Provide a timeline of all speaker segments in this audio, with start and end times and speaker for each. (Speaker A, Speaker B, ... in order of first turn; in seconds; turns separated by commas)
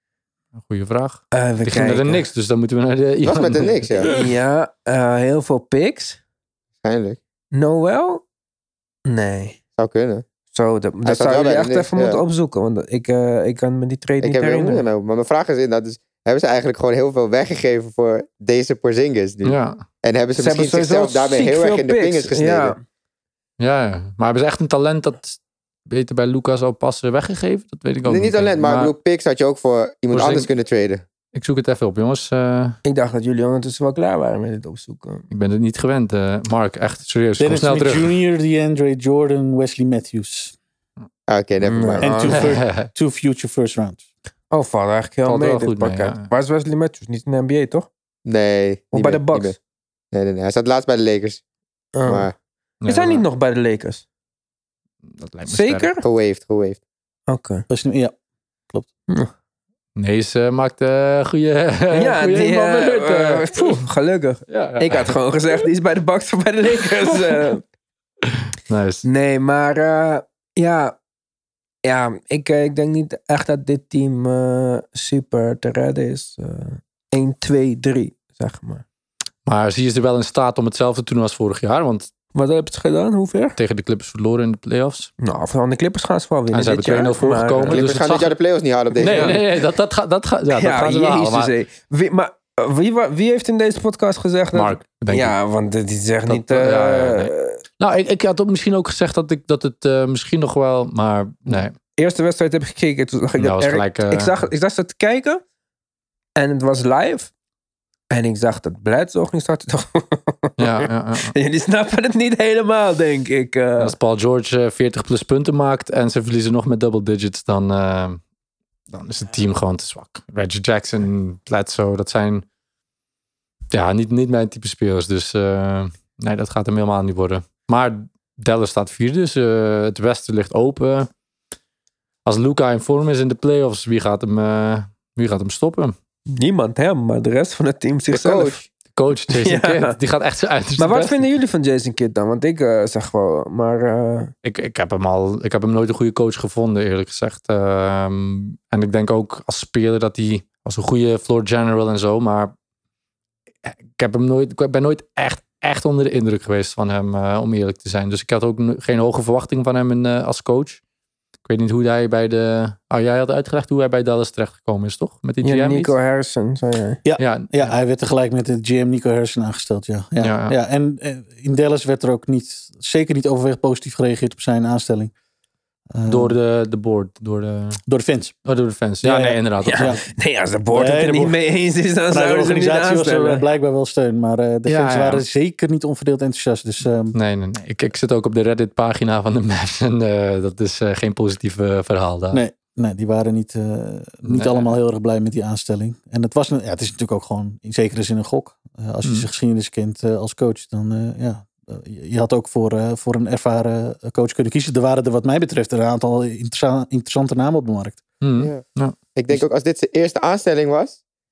Speaker A: 0.5-4.2, Speaker B: 1.3-2.2, Speaker C: 3.2-4.1, Speaker B: 4.0-6.2, Speaker C: 6.8-7.2, Speaker B: 7.5-8.2, Speaker B: 9.1-9.6, Speaker C: 9.8-10.2, Speaker B: 10.5-14.8, Speaker C: 11.0-12.2, Speaker C: 14.2-22.8, Speaker A: 19.4-19.8, Speaker B: 20.4-22.8, Speaker A: 23.6-28.9, Speaker C: 28.0-31.0, Speaker A: 30.1-30.5, Speaker A: 31.3-32.8, Speaker B: 32.8-35.2, Speaker A: 35.3-38.1, Speaker D: 37.4-40.5, Speaker C: 41.3-42.1, Speaker B: 41.6-42.5, Speaker D: 42.0-44.0, Speaker A: 42.3-42.9, Speaker B: 44.5-47.9, Speaker A: 45.2-46.3, Speaker C: 48.2-49.6, Speaker B: 48.9-49.5, Speaker C: 50.1-51.4, Speaker B: 51.9-52.3, Speaker C: 52.0-52.3, Speaker A: 52.8-53.2, Speaker B: 52.9-54.0, Speaker A: 55.1-55.9, Speaker B: 55.5-56.0, Speaker C: 56.0-56.8, Speaker B: 57.3-57.6, Speaker D: 57.7-58.1, Speaker A: 60.0-63.8, Speaker B: 61.9-67.6, Speaker A: 64.5-65.1, Speaker A: 68.7-69.0, Speaker B: 69.0-70.9, Speaker B: 71.8-78.8, Speaker A: 79.5-82.1, Speaker B: 82.3-83.6, Speaker A: 83.6-85.1, Speaker B: 85.2-87.8, Speaker A: 86.5-88.3, Speaker C: 87.7-89.4, Speaker A: 89.0-91.5, Speaker B: 89.0-89.4, Speaker B: 90.5-97.6, Speaker A: 94.5-95.3, Speaker A: 96.3-101.7, Speaker B: 102.0-105.4, Speaker A: 103.4-104.4, Speaker B: 106.3-107.3, Speaker B: 108.1-113.9, Speaker A: 110.6-111.3, Speaker A: 113.8-118.2, Speaker A: 118.9-122.4, Speaker A: 123.7-131.1, Speaker A: 132.2-135.9, Speaker B: 136.3-138.6, Speaker C: 138.1-138.6, Speaker A: 138.9-141.2, Speaker B: 139.3-139.9, Speaker B: 140.8-144.3, Speaker A: 144.4-152.5, Speaker A: 153.6-160.8, Speaker A: 161.4-165.9, Speaker B: 165.4-167.0, Speaker D: 167.0-175.1, Speaker A: 167.2-167.7, Speaker A: 170.2-170.6, Speaker D: 175.9-176.3, Speaker A: 176.1-177.8, Speaker D: 177.9-178.3, Speaker A: 178.4-180.0, Speaker D: 179.0-180.0, Speaker B: 179.6-183.4, Speaker D: 180.7-181.4, Speaker D: 182.1-187.2, Speaker A: 184.7-185.2, Speaker A: 187.1-192.4, Speaker D: 192.3-208.0, Speaker A: 194.2-194.8, Speaker A: 208.2-208.9, Speaker C: 209.1-211.0